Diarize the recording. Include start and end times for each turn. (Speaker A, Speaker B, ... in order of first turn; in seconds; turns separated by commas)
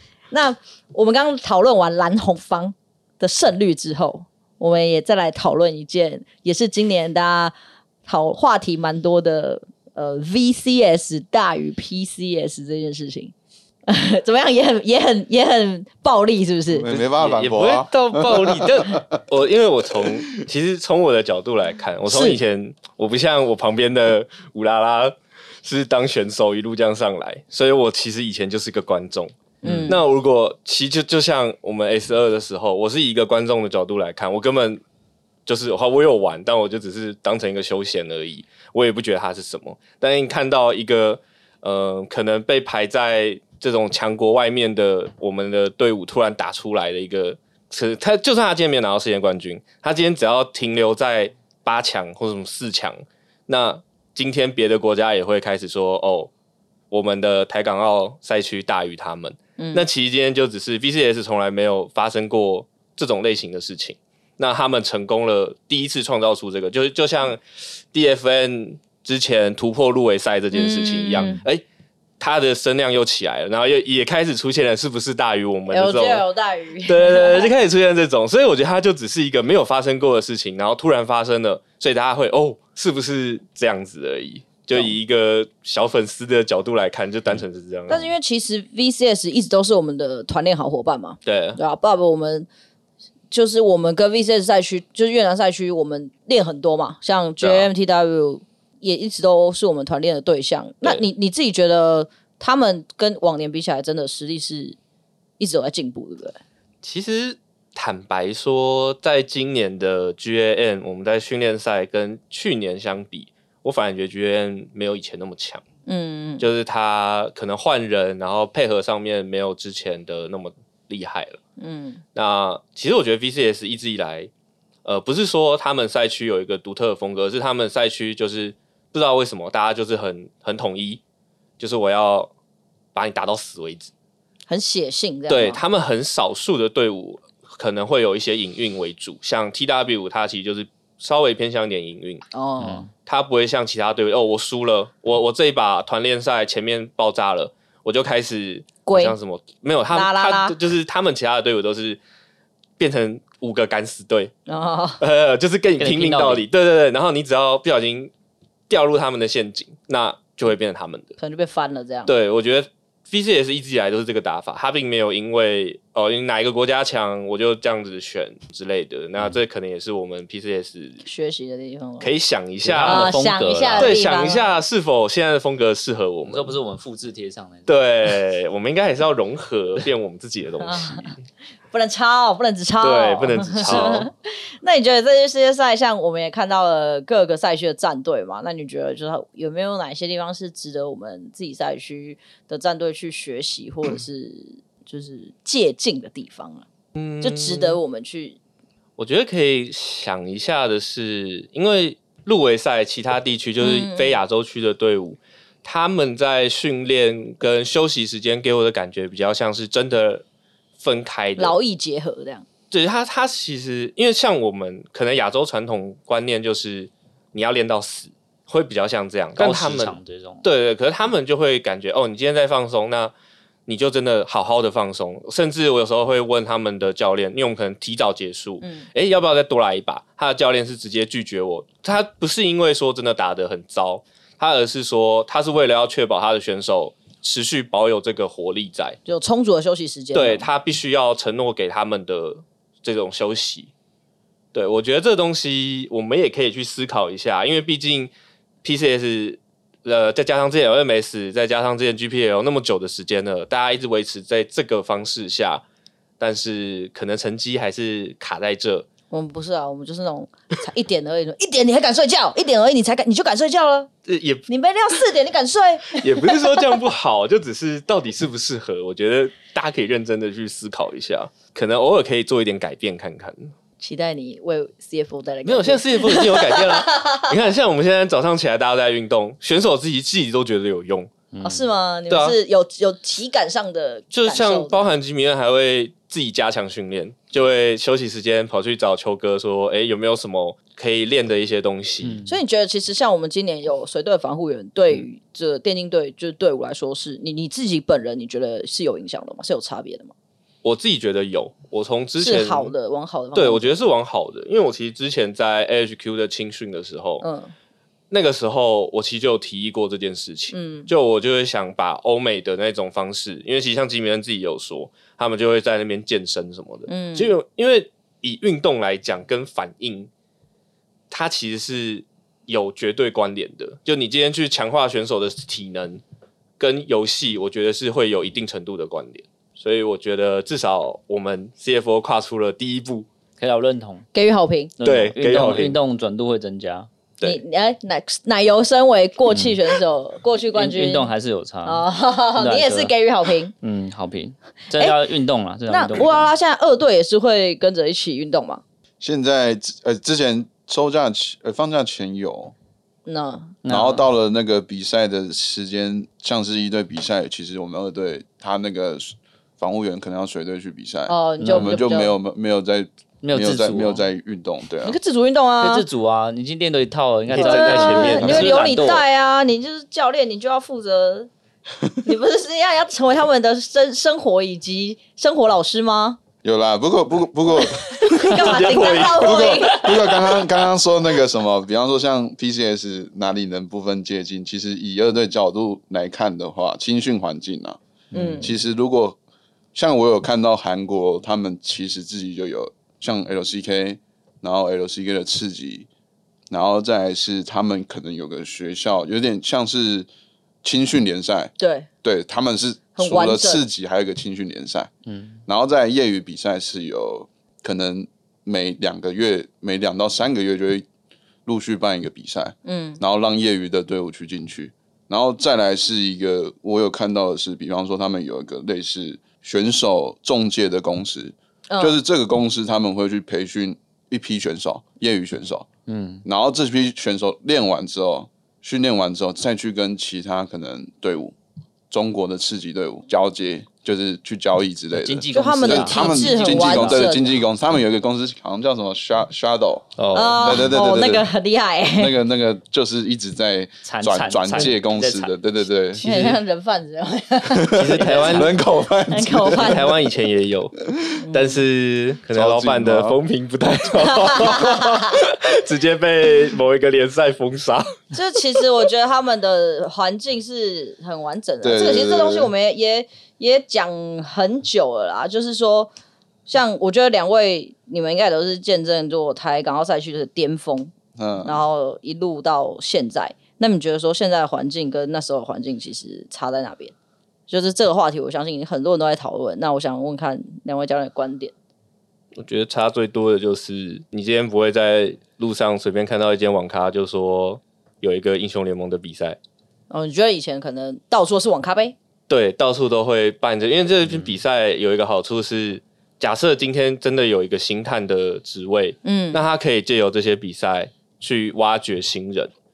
Speaker A: 0.3-7.5, Speaker A: 8.0-13.3, Speaker A: 13.9-16.9, Speaker B: 16.7-19.2, Speaker C: 16.9-29.3, Speaker A: 22.1-22.4, Speaker A: 29.6-30.0, Speaker D: 29.6-29.9, Speaker C: 29.9-34.8, Speaker C: 35.5-56.3, Speaker C: 56.9-71.6, Speaker A: 59.6-59.8, Speaker A: 70.5-71.4, Speaker C: 72.2-76.2, Speaker A: 75.7-77.5, Speaker C: 76.8-88.1, Speaker A: 87.9-92.5, Speaker C: 91.2-91.6, Speaker A: 93.3-104.8, Speaker C: 97.4-97.7, Speaker A: 105.4-106.4, Speaker C: 106.8-115.6, Speaker A: 115.9-116.5, Speaker C: 116.4-121.4, Speaker A: 121.6-122.0, Speaker C: 122.1-124.3, Speaker C: 124.8-131.0, Speaker C: 131.6-132.3, Speaker C: 132.9-133.9, Speaker A: 134.5-135.6, Speaker C: 135.3-142.2, Speaker A: 142.3-142.9, Speaker D: 142.6-142.9, Speaker C: 143.0-152.0, Speaker A: 148.8-149.2, Speaker A: 149.9-150.5, Speaker C: 152.8-154.3, Speaker A: 154.5-155.0, Speaker C: 155.0-158.1, Speaker D: 155.8-156.4, Speaker C: 158.7-161.1, Speaker A: 161.2-162.1, Speaker C: 162.1-171.0, Speaker A: 171.0-172.1, Speaker C: 172.0-173.1, Speaker D: 172.6-174.0, Speaker A: 172.8-174.6, Speaker C: 173.8-176.5, Speaker D: 176.2-177.7, Speaker C: 177.7-181.2, Speaker A: 180.6-181.1, Speaker A: 181.7-196.7, Speaker C: 182.8-184.1, Speaker C: 196.9-197.8, Speaker A: 197.2-198.4, Speaker C: 199.0-210.2, Speaker A: 203.6-204.2, Speaker C: 210.8-211.6, Speaker A: 211.4-212.4, Speaker C: 212.7-223.1, Speaker D: 219.4-220.5, Speaker C: 223.7-239.0, Speaker A: 228.6-228.9, Speaker A: 239.1-240.5, Speaker C: 240.1-243.7, Speaker C: 244.5-248.1, Speaker C: 248.6-255.6, Speaker C: 256.2-258.9, Speaker A: 259.1-263.9, Speaker C: 264.1-264.5, Speaker A: 264.5-266.4, Speaker C: 265.9-273.5, Speaker A: 273.8-277.3, Speaker C: 275.4-281.1, Speaker D: 281.3-281.6, Speaker A: 281.4-284.9, Speaker C: 282.1-282.4, Speaker C: 284.1-292.2, Speaker D: 292.0-292.4, Speaker A: 292.2-300.1, Speaker C: 300.6-302.7, Speaker A: 302.2-303.8, Speaker C: 303.3-307.2, Speaker A: 307.2-307.5, Speaker C: 308.1-320.1, Speaker A: 310.5-310.9, Speaker A: 316.9-317.4, Speaker C: 321.1-326.0, Speaker C: 326.6-333.1, Speaker D: 333.4-334.1, Speaker A: 334.1-334.7, Speaker D: 334.8-336.9, Speaker C: 334.8-335.8, Speaker A: 337.2-341.1, Speaker D: 339.3-339.6, Speaker D: 340.5-342.9, Speaker A: 341.6-343.5, Speaker D: 343.6-346.3, Speaker A: 345.7-348.6, Speaker B: 349.0-352.5, Speaker A: 353.1-353.6, Speaker D: 353.6-354.0, Speaker B: 353.6-365.0, Speaker A: 361.1-362.1, Speaker D: 361.4-361.8, Speaker D: 363.2-364.1, Speaker A: 364.8-365.8, Speaker D: 365.6-369.0, Speaker B: 367.3-368.6, Speaker C: 367.3-368.4, Speaker A: 367.3-371.3, Speaker A: 372.0-376.2, Speaker B: 376.4-387.8, Speaker A: 377.5-380.0, Speaker C: 378.1-380.4, Speaker A: 388.1-388.5, Speaker D: 388.1-388.5, Speaker B: 388.4-389.2, Speaker B: 389.7-395.9, Speaker B: 396.5-400.1, Speaker B: 400.6-401.5, Speaker A: 401.6-401.9, Speaker B: 402.0-404.9, Speaker A: 402.9-403.6, Speaker D: 405.1-405.4, Speaker B: 405.5-410.9, Speaker B: 411.4-425.7, Speaker A: 412.6-413.0, Speaker A: 421.7-422.0, Speaker D: 425.9-426.2, Speaker B: 426.2-431.3, Speaker B: 431.9-441.3, Speaker D: 434.9-437.1, Speaker A: 435.3-437.3, Speaker C: 440.0-440.6, Speaker A: 440.1-442.1, Speaker B: 442.0-446.1, Speaker D: 443.8-445.4, Speaker A: 446.0-448.3, Speaker C: 446.0-446.4, Speaker B: 447.5-449.8, Speaker C: 447.7-448.6, Speaker D: 447.9-448.5, Speaker A: 449.1-449.8, Speaker C: 449.5-450.8, Speaker A: 451.2-451.6, Speaker C: 451.3-458.0, Speaker B: 452.3-453.2, Speaker A: 454.0-455.2, Speaker A: 458.1-465.9, Speaker B: 461.6-462.5, Speaker A: 466.5-476.9, Speaker B: 471.1-471.6, Speaker A: 477.5-481.5, Speaker C: 482.4-489.4, Speaker A: 489.9-491.9, Speaker C: 492.3-502.5, Speaker D: 494.0-494.4, Speaker A: 499.0-499.4